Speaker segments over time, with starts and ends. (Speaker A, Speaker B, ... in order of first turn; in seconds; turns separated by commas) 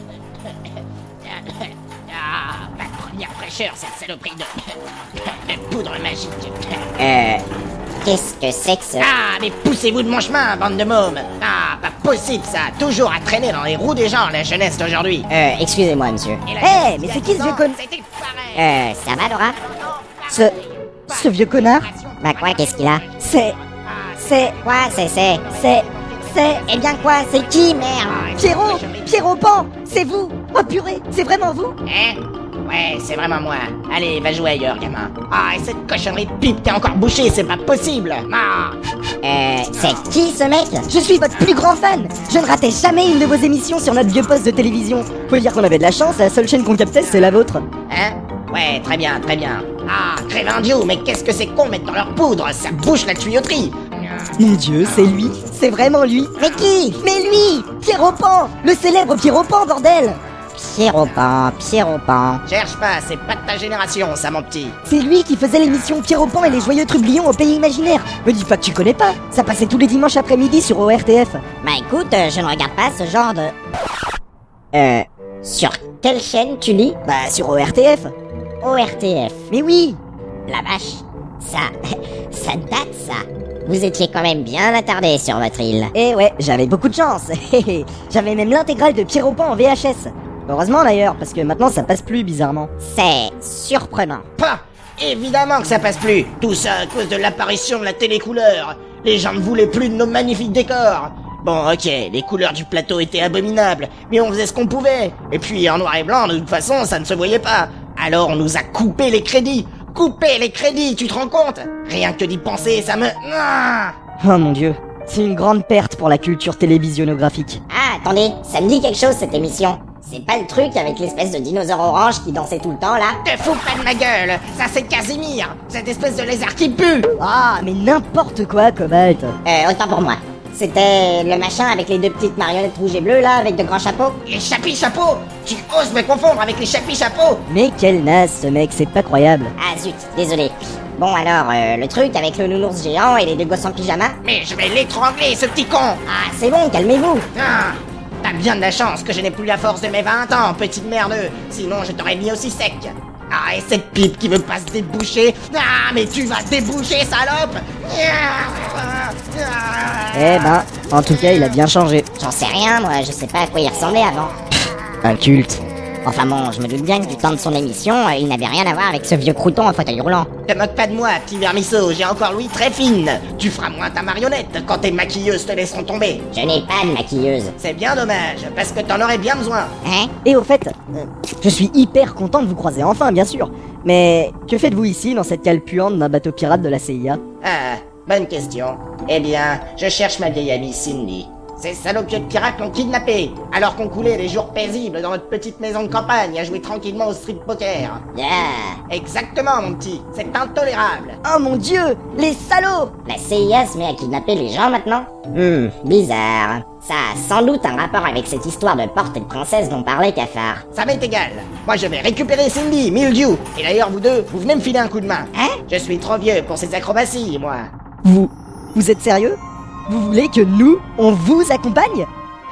Speaker A: 1.2-6.8, Speaker B: 7.0-7.4, Speaker B: 8.0-9.1, Speaker A: 9.0-15.3, Speaker B: 15.3-16.4, Speaker A: 16.4-18.6, Speaker C: 16.6-17.8, Speaker B: 18.5-19.6, Speaker A: 19.6-29.2, Speaker C: 21.1-21.9, Speaker B: 22.2-23.0, Speaker C: 23.2-23.6, Speaker C: 24.2-24.5, Speaker B: 24.6-25.4, Speaker C: 25.5-26.6, Speaker B: 26.7-28.3, Speaker C: 28.4-31.8, Speaker A: 31.8-38.8, Speaker B: 39.2-40.9, Speaker C: 40.9-47.6, Speaker A: 47.9-54.3, Speaker C: 54.4-56.4, Speaker B: 56.4-57.0, Speaker C: 57.0-60.2, Speaker B: 60.5-62.4, Speaker A: 62.5-64.8, Speaker C: 64.8-71.4, Speaker B: 71.6-73.5, Speaker B: 74.7-77.0, Speaker C: 77.0-78.1, Speaker B: 78.6-79.4, Speaker C: 79.5-80.0, Speaker B: 80.5-85.9, Speaker C: 85.9-92.7, Speaker B: 92.8-94.2, Speaker A: 94.4-113.9, Speaker C: 114.2-117.6, Speaker B: 117.7-123.2, Speaker A: 123.2-127.1, Speaker C: 127.2-129.3, Speaker B: 129.4-134.2, Speaker A: 134.2-137.4, Speaker C: 137.5-139.5, Speaker B: 139.6-144.2, Speaker A: 144.2-146.0, Speaker B: 146.1-147.3, Speaker A: 147.3-161.4, Speaker C: 160.1-162.1, Speaker B: 162.2-164.3, Speaker C: 165.0-165.6, Speaker B: 166.0-170.3, Speaker A: 170.5-176.2, Speaker B: 176.3-177.5, Speaker A: 177.6-179.7, Speaker B: 179.8-180.1, Speaker C: 180.2-187.2, Speaker A: 187.4-198.0, Speaker B: 198.1-198.8, Speaker A: 198.9-201.2, Speaker C: 201.2-202.9, Speaker B: 203.1-210.6, Speaker A: 210.7-217.7, Speaker C: 218.0-222.1